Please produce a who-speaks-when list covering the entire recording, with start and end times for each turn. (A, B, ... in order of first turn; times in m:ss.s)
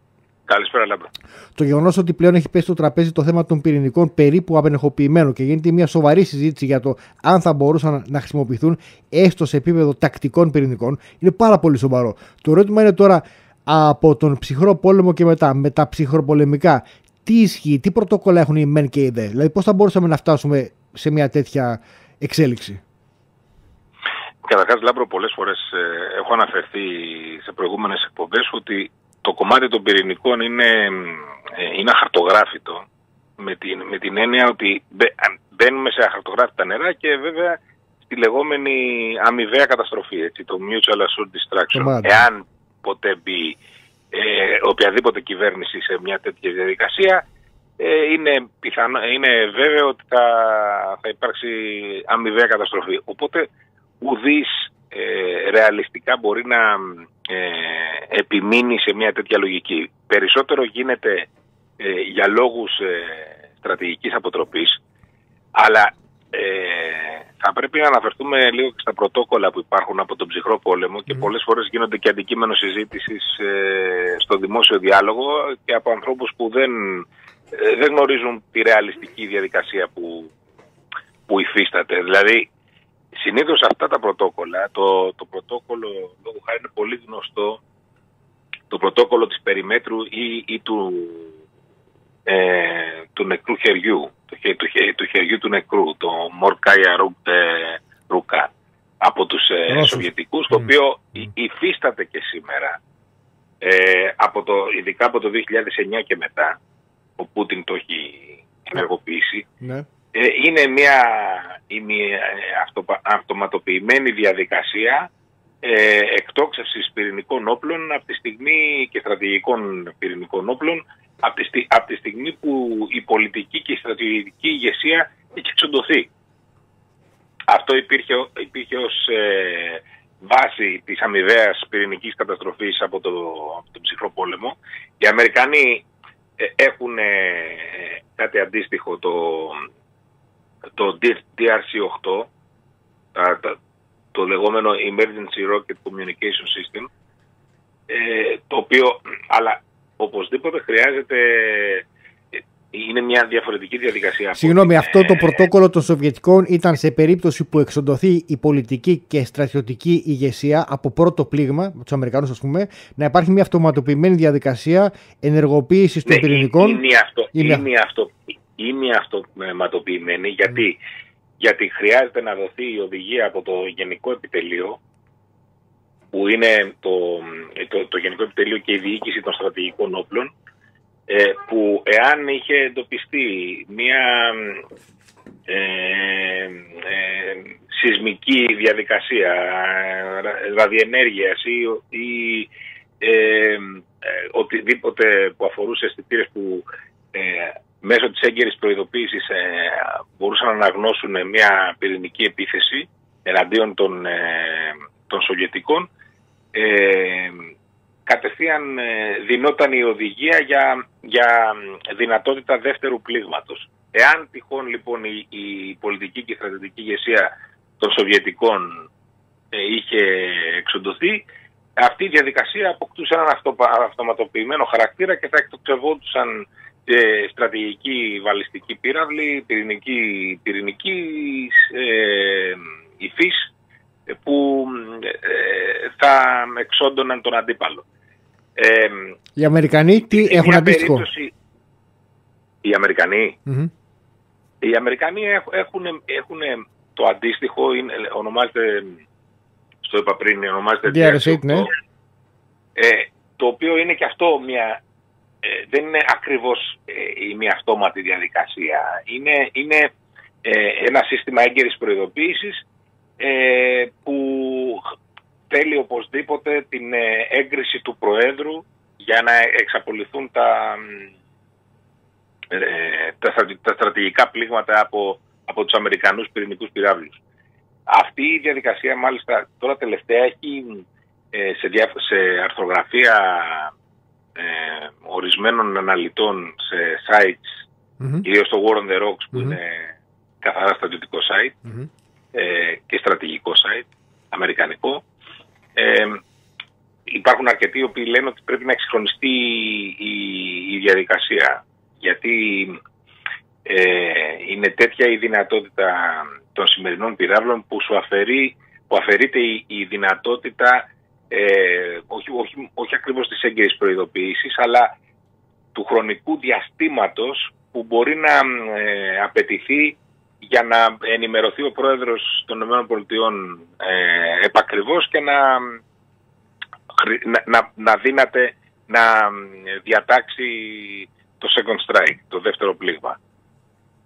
0:00.5-0:01.1 A
0:01.6-0:22.8 B
0:24.4-0:32.8 A
0:33.4-0:43.6 A
0:41.7-0:42.3 B
0:44.1-0:47.2 A
0:47.8-0:53.5 A
0:54.0-1:04.8 A
1:05.6-1:20.3 A
1:21.3-1:22.5 A
1:23.2-1:27.6 A
1:28.7-1:31.3 A
1:32.3-1:42.8 A
1:39.7-1:40.1 B
1:43.6-1:46.6 A
1:47.2-1:49.4 A
1:49.6-1:49.9 B
1:50.1-1:55.1 A
1:55.6-2:06.1 A
2:07.5-2:15.9 A
2:16.4-2:19.6 A
2:20.8-2:22.3 A
2:23.2-2:23.6 A
2:24.1-2:26.9 A
2:27.9-2:35.5 A
2:34.4-2:46.8 B
2:46.0-2:50.8 A
2:47.3-2:47.7 B
2:51.4-2:54.8 A
2:56.1-3:00.3 A
3:01.1-3:04.6 A
3:05.5-3:25.9 A
3:26.5-3:27.5 A
3:28.1-3:38.9 A
3:39.5-3:41.3 A
3:41.8-3:53.5 A
3:54.1-3:57.8 A
3:58.6-3:59.2 A
3:59.4-4:01.1 B
4:00.0-4:01.3 A
4:02.6-4:03.4 A
4:04.6-4:09.0 A
4:09.8-4:11.7 A
4:10.9-4:11.7 B
4:12.8-4:14.8 A
4:15.4-4:19.9 A
4:20.4-4:22.6 A
4:23.2-4:24.8 A
4:25.5-4:31.1 A
4:32.5-4:37.2 A
4:37.9-4:43.7 A
4:44.4-4:47.7 A
4:48.2-4:51.6 A
4:49.3-4:49.6 B
4:52.3-4:55.0 A
4:55.8-4:56.2 A
4:57.1-5:02.8 A
5:03.6-5:15.0 A
5:15.7-5:25.8 A
5:26.9-5:33.2 A